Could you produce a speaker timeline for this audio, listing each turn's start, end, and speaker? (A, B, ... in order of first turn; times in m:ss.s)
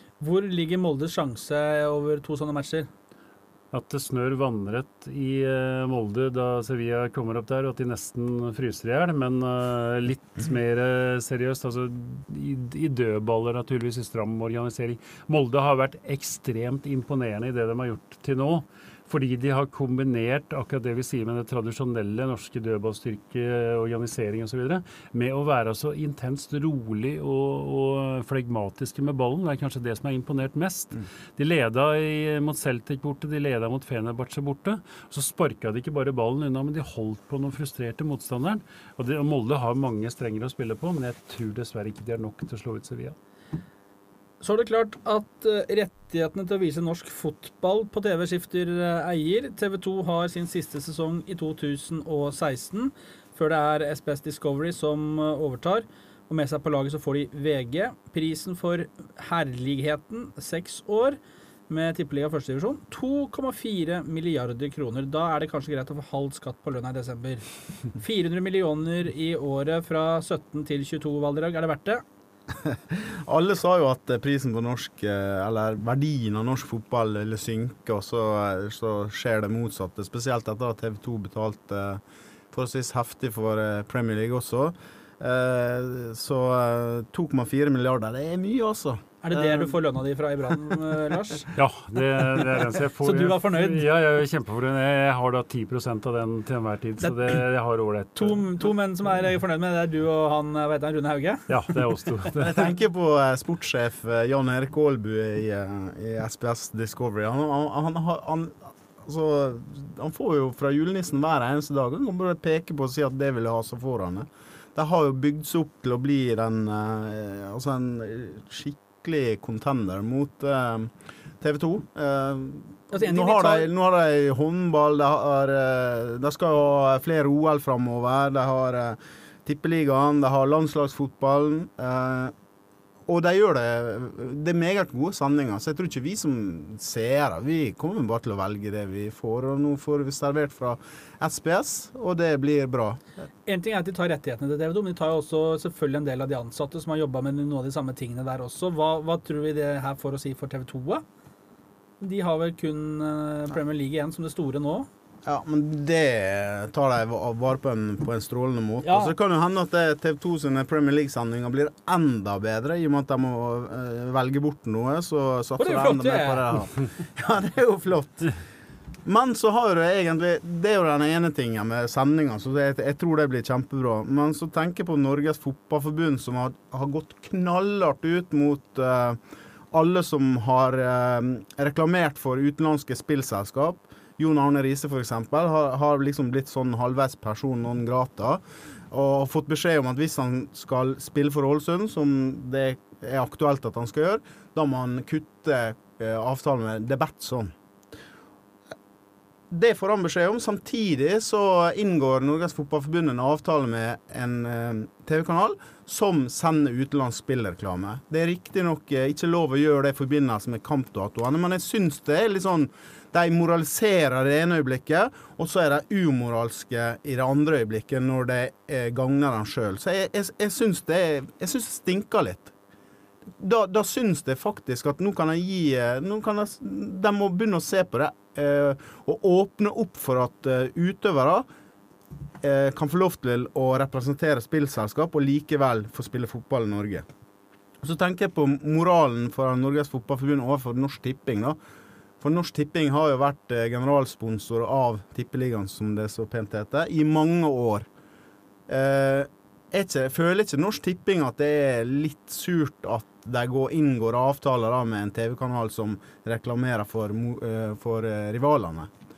0:00.2-0:02.9 A
0:03.7-0:43.2 B
0:44.4-1:07.4 A
1:08.0-1:12.0 A
1:12.6-1:29.4 C
1:29.2-1:31.5 A
1:31.6-1:38.5 B
1:33.0-1:33.9 A
1:37.0-1:37.4 A
1:38.2-1:41.5 A
1:41.5-1:42.6 B
1:42.4-2:12.3 C
2:02.9-2:03.7 A
2:13.1-2:23.0 C
2:23.5-2:31.0 A
2:32.0-2:34.9 A
2:35.2-2:48.3 C
2:38.8-2:39.1 A
2:45.6-2:46.5 A
2:49.0-2:59.2 C
2:59.7-3:17.5 C
3:19.5-3:42.5 C
3:43.4-3:51.4 C
3:52.4-3:57.0 C
3:57.8-4:01.6 C
4:02.2-4:07.9 C
4:08.7-4:18.9 C